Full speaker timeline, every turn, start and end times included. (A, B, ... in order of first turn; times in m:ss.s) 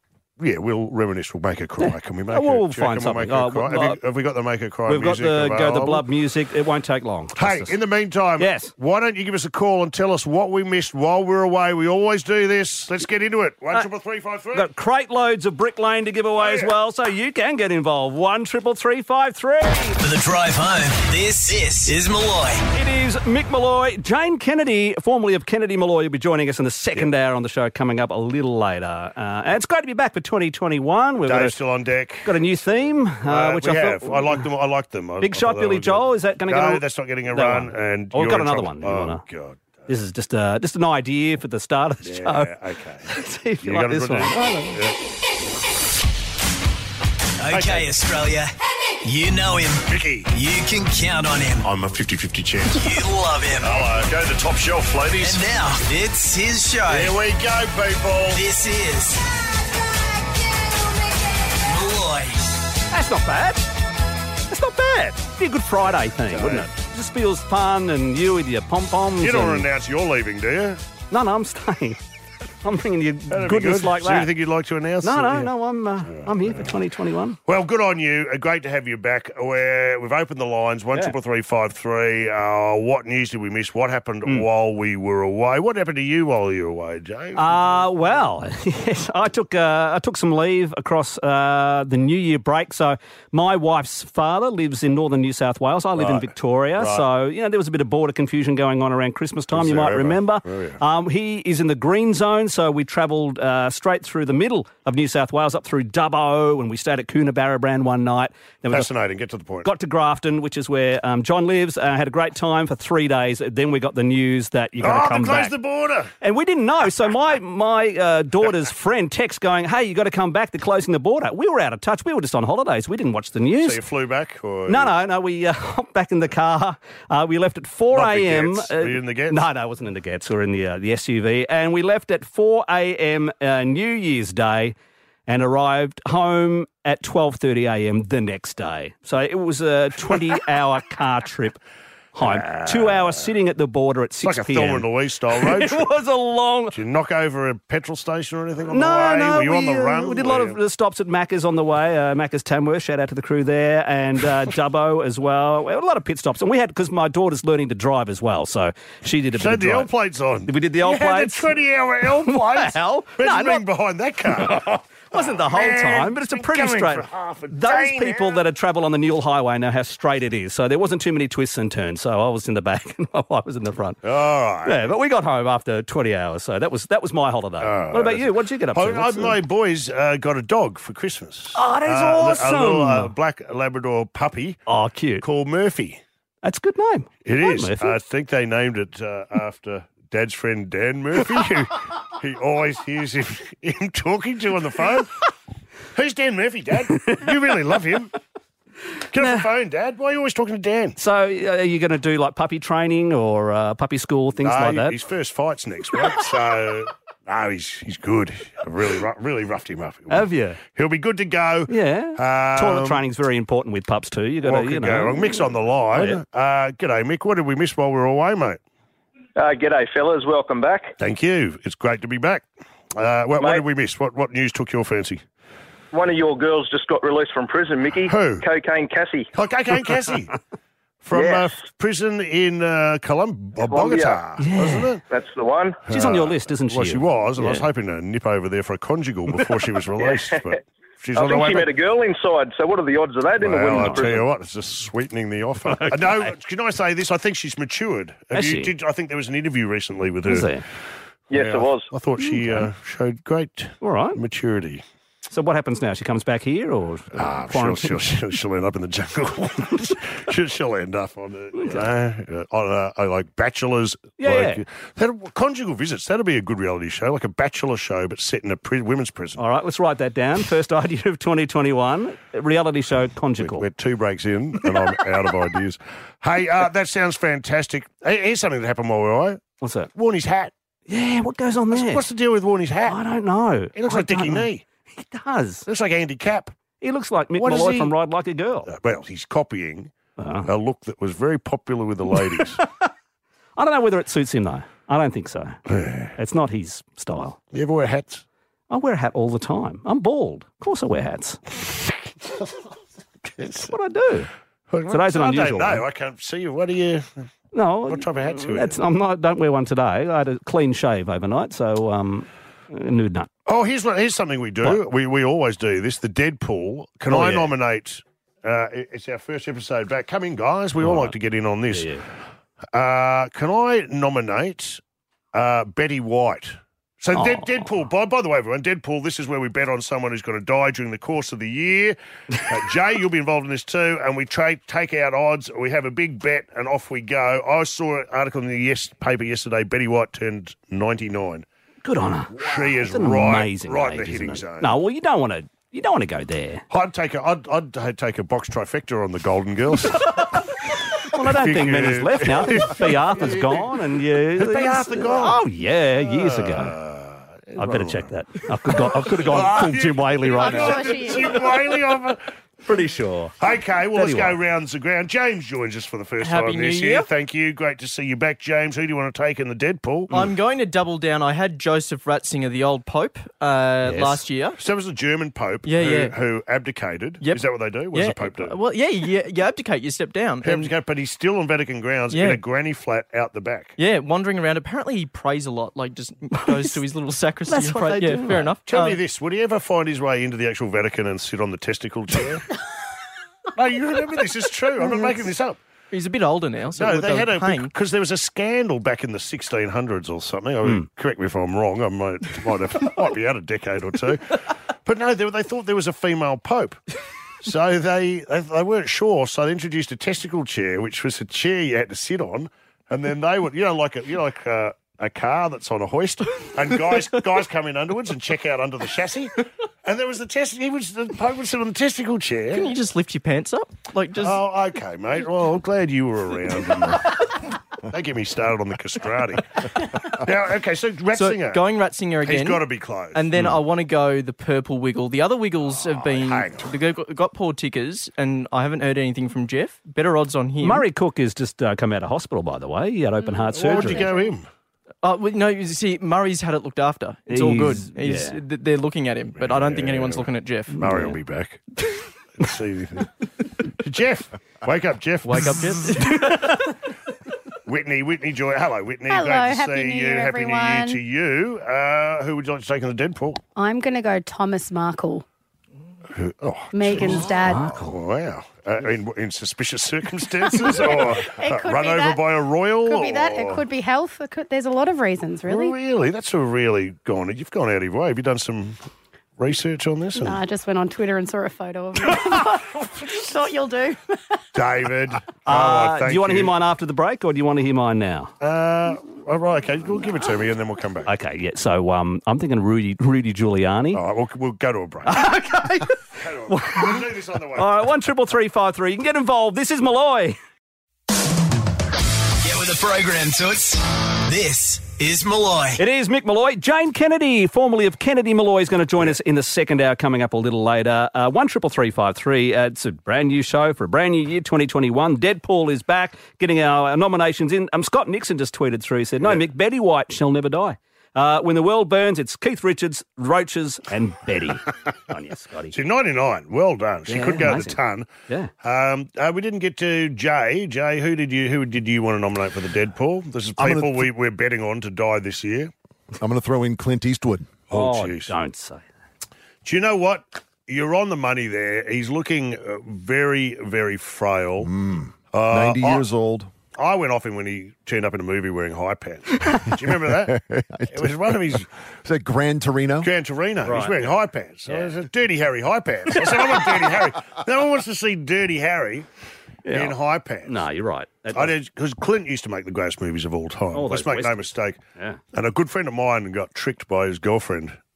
0:00.4-0:06.0 A
0:01.8-0:04.0 B
0:04.9-0:07.7 B
0:07.4-0:14.7 A
0:08.4-0:08.7 B
0:14.5-0:20.0 B
0:16.4-0:16.7 A
0:20.0-0:22.6 C
0:22.7-0:31.6 B
0:31.2-0:32.6 A
0:32.2-0:34.5 B
0:33.3-0:39.6 A
0:35.2-0:39.2 B
0:39.9-0:42.5 B
0:42.0-0:43.1 A
0:43.1-0:44.8 B
0:43.6-0:45.0 A
0:47.4-0:48.5 C
0:47.5-0:47.9 A
0:49.0-0:51.6 C
0:49.9-0:50.3 A
0:51.6-0:52.8 D
0:52.7-0:53.9 C
0:53.6-0:55.4 D
0:55.2-0:57.2 C
0:56.9-0:58.4 A
0:58.3-0:59.2 C
1:01.6-1:02.6 C
1:02.9-1:03.7 B
1:04.5-1:09.7 B
1:06.3-1:06.7 A
1:09.2-1:10.8 A
1:11.1-1:12.0 B
1:12.6-1:14.3 B
1:13.3-1:15.5 A
1:15.0-1:17.4 B
1:16.0-1:16.7 A
1:17.5-1:28.2 A
1:27.4-1:48.9 B
1:36.0-1:37.1 A
1:39.5-1:40.8 A
1:48.7-1:49.7 A
1:49.6-1:55.5 B
1:54.8-1:56.1 A
1:56.2-2:03.8 B
2:03.6-2:04.9 A
2:04.7-2:14.8 B
2:07.9-2:09.4 A
2:15.3-2:21.6 B
2:22.2-2:24.9 B
2:22.2-2:23.0 A
2:24.2-2:25.8 A
2:25.5-2:26.8 B
2:26.7-2:30.6 A
2:28.7-2:39.9 B
2:39.4-2:48.4 A
2:40.5-2:41.5 B
2:42.2-2:43.6 B
2:45.1-2:54.0 B
2:54.0-2:54.9 A
2:54.6-2:59.4 B
2:57.6-3:04.6 A
3:01.6-3:03.1 B
3:04.7-3:05.2 B
3:05.2-3:06.0 A
3:06.4-3:07.9 B
3:07.2-3:15.1 A
3:16.0-3:18.1 A
3:16.9-3:17.2 B
3:19.1-3:21.0 A
3:21.0-3:25.0 B
3:24.4-3:33.0 A
3:30.1-3:30.6 B
3:31.7-3:36.2 B
3:34.4-3:38.6 A
3:39.4-3:40.9 E
3:41.0-3:45.2 A
3:43.4-3:43.6 E
3:45.9-3:49.3 E
3:48.1-3:48.5 A
3:49.4-3:50.3 A
3:51.0-3:55.0 A
3:51.1-3:51.6 E
3:53.6-3:54.2 E
3:54.4-3:54.9 B
3:55.1-3:55.8 E
3:55.9-4:01.7 A
3:55.9-3:57.6 B
4:00.0-4:00.4 E
4:01.2-4:04.2 E
4:03.4-4:10.5 A
4:03.6-4:04.2 B
4:05.7-4:06.3 B
4:08.3-4:08.7 B
4:10.3-4:10.6 B
4:11.3-4:11.9 E
4:11.3-4:14.8 A
4:12.2-4:12.7 B
4:13.8-4:14.2 B
4:15.3-4:18.0 B
4:17.2-4:29.4 A
4:21.6-4:21.9 B
4:24.2-4:24.6 B
4:29.4-4:33.6 B
4:33.4-4:39.4 A
4:39.6-4:39.9 B
4:40.0-4:40.5 A
4:40.9-4:42.0 B
4:41.7-4:43.0 A
4:42.9-4:45.7 B
4:43.8-4:44.6 A
4:45.7-4:46.5 A
4:46.8-4:48.7 B
4:47.4-4:47.9 A
4:48.7-4:49.9 A
4:50.2-4:50.5 B
4:50.5-4:52.6 A
4:53.6-4:55.6 B
4:55.7-4:56.1 A
4:56.2-4:57.4 B
4:57.5-4:58.2 A
4:58.7-5:01.4 B
5:03.2-5:03.7 A
5:03.7-5:04.3 B
5:04.7-5:07.1 A
5:04.9-5:05.8 B
5:07.5-5:13.3 B
5:07.9-5:08.8 A
5:13.5-5:21.9 A
5:17.1-5:17.5 B
5:20.8-5:21.2 B
5:21.7-5:22.0 B
5:22.7-5:24.8 A
5:25.3-5:41.5 A
5:27.2-5:27.7 B
5:41.8-5:46.6 B
5:42.3-5:44.7 A
5:46.7-5:50.3 A
5:51.1-5:56.8 B
5:51.2-5:53.7 A
5:54.4-5:55.4 A
5:56.0-5:58.1 A
5:57.6-6:01.4 B
5:58.8-6:02.2 A
6:00.4-6:01.6 F
6:02.6-6:03.4 B
6:03.4-6:10.1 A
6:04.0-6:04.4 B
6:06.2-6:07.1 G
6:10.1-6:14.6 G
6:13.8-6:14.2 B
6:14.6-6:18.6 A
6:15.6-6:16.2 G
6:17.2-6:20.7 G
6:20.4-6:23.8 A
6:22.1-6:22.4 G
6:23.8-6:29.0 G
6:26.5-6:26.7 B
6:27.5-6:28.6 B
6:28.7-6:32.4 A
6:33.6-6:35.6 A
6:35.9-6:37.7 G
6:36.8-6:44.3 A
6:44.8-6:46.8 A
6:47.4-7:02.7 A
7:02.5-7:04.4 G
7:04.2-7:07.1 A
7:07.9-7:09.5 A
7:10.1-7:11.7 A
7:11.1-7:20.9 G
7:12.2-7:13.3 A
7:15.6-7:16.7 A
7:20.6-7:24.1 B
7:23.5-7:24.5 A
7:23.9-7:24.2 F
7:25.0-7:30.8 G
7:27.3-7:28.4 B
7:29.4-7:31.6 A
7:30.8-7:31.2 B
7:32.4-7:33.1 A
7:33.8-7:35.9 A
7:35.2-7:36.4 G
7:37.7-7:43.4 A
7:39.1-7:41.0 F
7:43.6-7:45.2 F
7:46.1-7:53.6 A
7:46.7-7:47.7 F
7:47.0-7:48.0 B
7:50.6-7:52.2 F
7:52.9-7:55.8 F
7:55.5-7:58.8 A
7:59.4-8:00.4 A
8:00.2-8:04.0 F
8:04.5-8:06.5 A
8:05.5-8:08.3 B
8:08.4-8:11.1 A
8:11.1-8:14.0 B
8:13.9-8:15.2 A
8:15.1-8:15.9 B
8:16.2-8:17.7 A
8:16.5-8:17.0 B
8:17.6-8:20.4 B
8:22.4-8:25.8 C
8:25.8-8:45.7 B
8:45.7-8:48.1 A
8:47.1-8:48.5 B
8:48.6-8:55.7 A
8:53.6-8:54.0 H
8:56.2-8:57.5 H
8:57.7-8:58.3 A
8:57.7-8:58.8 B
8:59.6-9:04.7 A
9:04.6-9:06.5 H
9:05.3-9:06.0 A
9:06.8-9:10.3 A
9:10.1-9:13.1 H
9:10.9-9:11.7 A
9:13.0-9:19.1 A
9:13.6-9:14.0 B
9:19.7-9:20.0 B
9:19.7-9:20.6 A
9:20.5-9:21.5 B
9:21.3-9:24.8 A
9:23.7-9:25.2 B
9:25.3-9:27.8 A